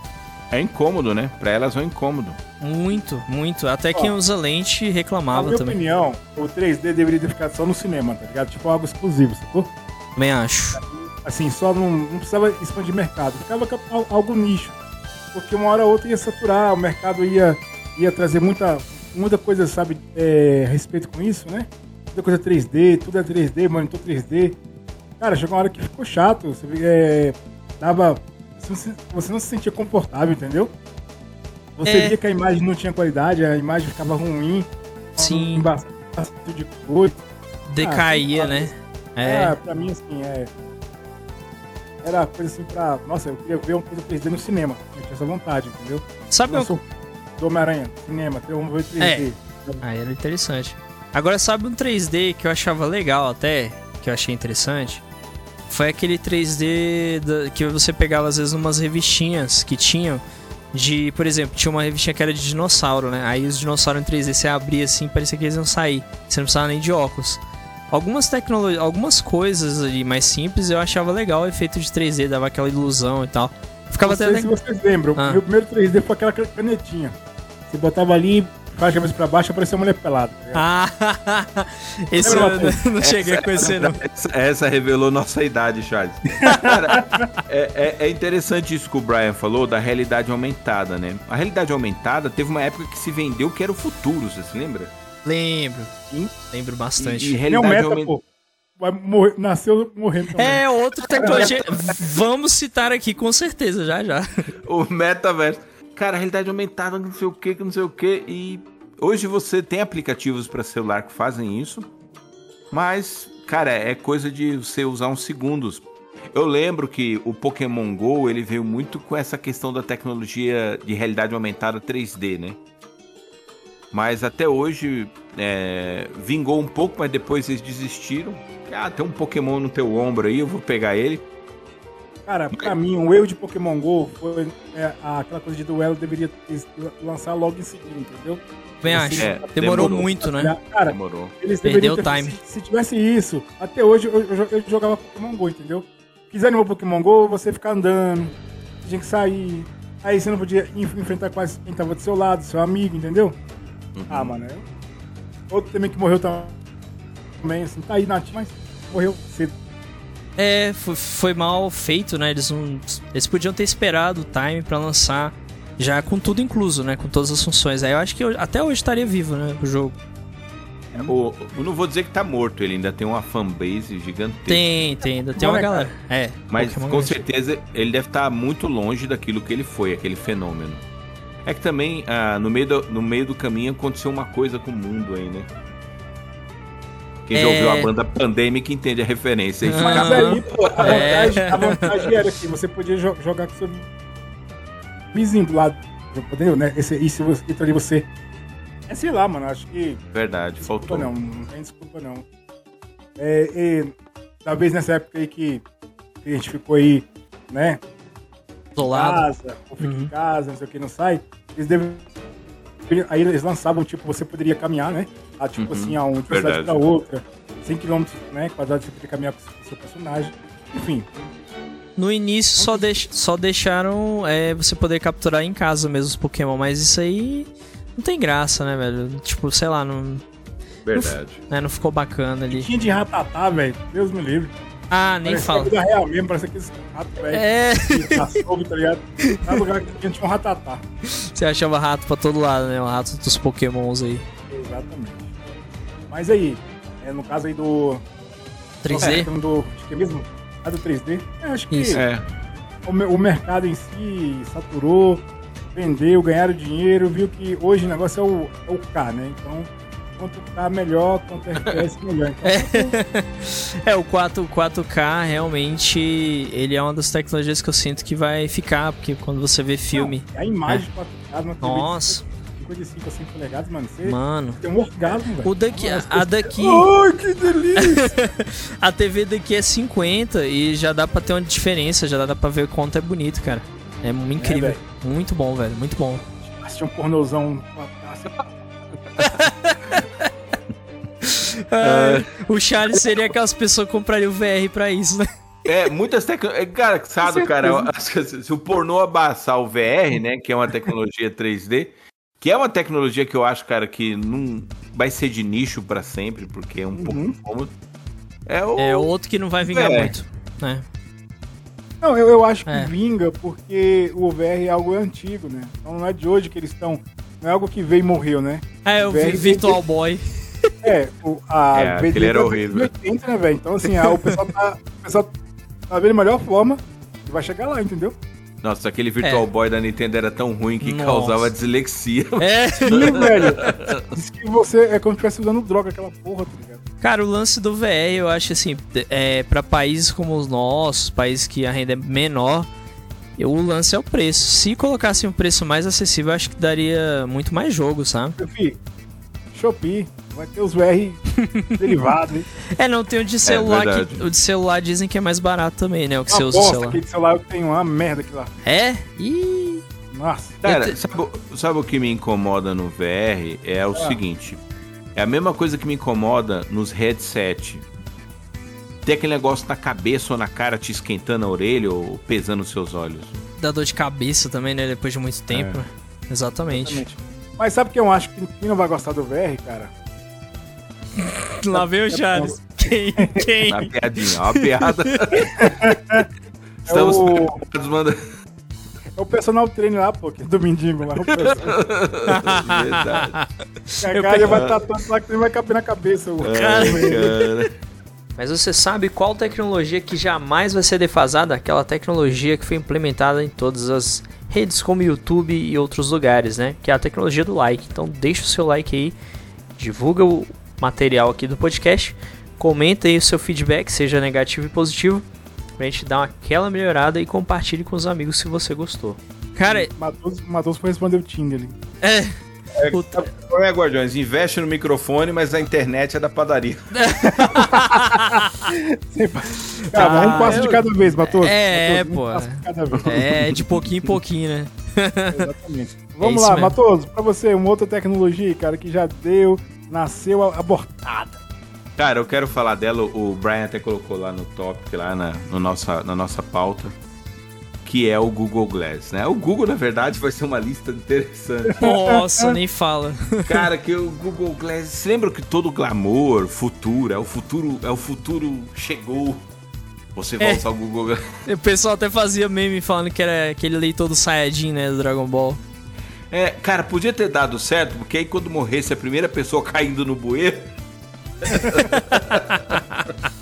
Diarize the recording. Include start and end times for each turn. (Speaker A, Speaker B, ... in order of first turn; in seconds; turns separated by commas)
Speaker A: 0.5-2.4, Speaker B: 2.6-5.8, Speaker C: 5.3-9.7, Speaker B: 10.2-10.8, Speaker C: 10.8-14.8, Speaker C: 15.3-24.6, Speaker C: 25.2-30.7, Speaker C: 31.8-37.2, Speaker B: 31.9-32.2, Speaker B: 35.2-35.7, Speaker B: 37.7-39.6, Speaker C: 37.8-40.5, Speaker C: 42.0-46.8, Speaker B: 46.3-46.7, Speaker C: 47.4-49.8, Speaker B: 49.0-49.3, Speaker B: 49.8-55.0, Speaker B: 55.7-60.2, Speaker B: 60.7-67.4, Speaker B: 67.9-74.5, Speaker C: 74.0-77.2, Speaker B: 75.2-75.4, Speaker C: 77.7-80.6, Speaker B: 80.5-84.0, Speaker C: 82.2-82.8, Speaker A: 83.0-94.9, Speaker C: 86.4-87.3, Speaker B: 95.2-95.9, Speaker B: 96.5-97.4, Speaker A: 97.0-98.1, Speaker C: 97.5-98.2, Speaker C: 98.8-101.7, Speaker B: 100.4-104.5, Speaker A: 104.6-111.9, Speaker A: 112.7-122.6, Speaker A: 123.9-131.2, Speaker C: 132.3-153.4, Speaker B: 138.8-140.6, Speaker A: 139.2-140.1, Speaker A: 140.9-141.3, Speaker B: 141.6-142.4, Speaker A: 153.9-154.3, Speaker C: 154.1-154.7, Speaker C: 155.5-156.6, Speaker C: 157.4-159.6, Speaker B: 160.4-170.0, Speaker A: 170.9-174.7, Speaker B: 174.5-177.2, Speaker C: 175.1-175.9, Speaker A: 176.5-180.8, Speaker A: 181.4-185.5, Speaker A: 187.3-191.5, Speaker B: 187.3-187.9, Speaker B: 189.7-191.8, Speaker C: 189.8-193.9, Speaker C: 195.1-198.1, Speaker C: 198.9-200.0, Speaker A: 200.1-201.1, Speaker C: 200.6-202.2, Speaker C: 203.2-205.6, Speaker C: 206.2-207.8, Speaker B: 208.8-209.2, Speaker C: 208.8-212.1, Speaker B: 209.8-210.1, Speaker C: 212.9-221.1, Speaker A: 215.6-216.8, Speaker B: 222.0-230.2, Speaker C: 222.6-223.0, Speaker A: 230.8-231.4, Speaker B: 230.9-232.7, Speaker C: 232.5-234.5, Speaker B: 234.9-235.7, Speaker C: 235.2-240.8, Speaker B: 237.3-238.4, Speaker B: 239.3-239.6, Speaker B: 241.1-244.2, Speaker C: 244.5-245.3, Speaker C: 246.1-248.0, Speaker B: 248.8-249.3, Speaker C: 248.9-252.0, Speaker B: 251.7-252.0, Speaker A: 251.9-252.2, Speaker C: 252.8-263.0, Speaker B: 262.4-270.8, Speaker C: 269.9-278.2, Speaker B: 271.6-272.2, Speaker B: 274.0-274.6, Speaker B: 275.4-276.9, Speaker B: 277.8-286.2, Speaker C: 284.4-284.8, Speaker C: 286.5-288.5, Speaker B: 289.2-290.3, Speaker B: 291.2-295.3, Speaker A: 291.8-292.3, Speaker A: 295.7-307.7, Speaker C: 297.2-297.9, Speaker C: 306.9-307.4, Speaker A: 308.5-309.1, Speaker B: 308.8-310.9, Speaker A: 309.6-310.1, Speaker C: 312.0-319.8, Speaker B: 318.9-320.7, Speaker C: 320.8-325.3, Speaker A: 321.7-322.9, Speaker C: 325.9-328.2, Speaker A: 328.6-334.1, Speaker B: 330.8-331.5, Speaker B: 332.4-333.5, Speaker C: 332.9-336.8, Speaker B: 337.0-342.7, Speaker B: 343.4-348.4, Speaker C: 348.4-348.8, Speaker C: 349.5-351.2, Speaker B: 351.4-352.0, Speaker C: 351.8-352.5, Speaker B: 352.7-357.0, Speaker A: 353.4-354.3, Speaker C: 356.3-358.5, Speaker B: 358.6-359.8, Speaker C: 360.1-360.6, Speaker A: 360.6-364.6, Speaker B: 360.6-361.0, Speaker A: 365.2-367.9, Speaker A: 369.0-373.4, Speaker B: 373.6-377.0, Speaker A: 375.5-375.8, Speaker C: 376.7-379.9, Speaker B: 381.2-383.9, Speaker C: 381.7-382.6, Speaker C: 383.2-383.7, Speaker A: 383.7-385.7, Speaker B: 384.4-385.4, Speaker C: 385.5-386.3, Speaker A: 386.9-388.2, Speaker C: 386.9-387.6, Speaker C: 389.2-391.8, Speaker A: 391.3-393.4, Speaker B: 392.3-394.7, Speaker C: 394.0-397.4, Speaker A: 394.5-394.8, Speaker A: 396.4-397.7, Speaker B: 396.5-397.3, Speaker B: 398.4-409.1, Speaker B: 409.8-415.2, Speaker B: 415.8-419.9, Speaker C: 419.7-421.8, Speaker B: 422.0-422.4, Speaker A: 422.8-427.6, Speaker B: 422.9-423.3, Speaker B: 426.9-428.5, Speaker C: 427.3-433.4, Speaker B: 429.7-435.5, Speaker A: 429.9-430.9, Speaker A: 432.9-434.1, Speaker C: 435.3-441.4, Speaker B: 436.2-436.8, Speaker A: 442.0-447.0, Speaker A: 447.8-451.8, Speaker C: 451.7-452.6, Speaker B: 451.8-453.7, Speaker A: 453.4-459.4, Speaker A: 460.1-461.3, Speaker B: 461.4-465.6, Speaker A: 466.3-470.7, Speaker A: 471.4-472.8, Speaker C: 471.5-471.9, Speaker B: 472.6-472.9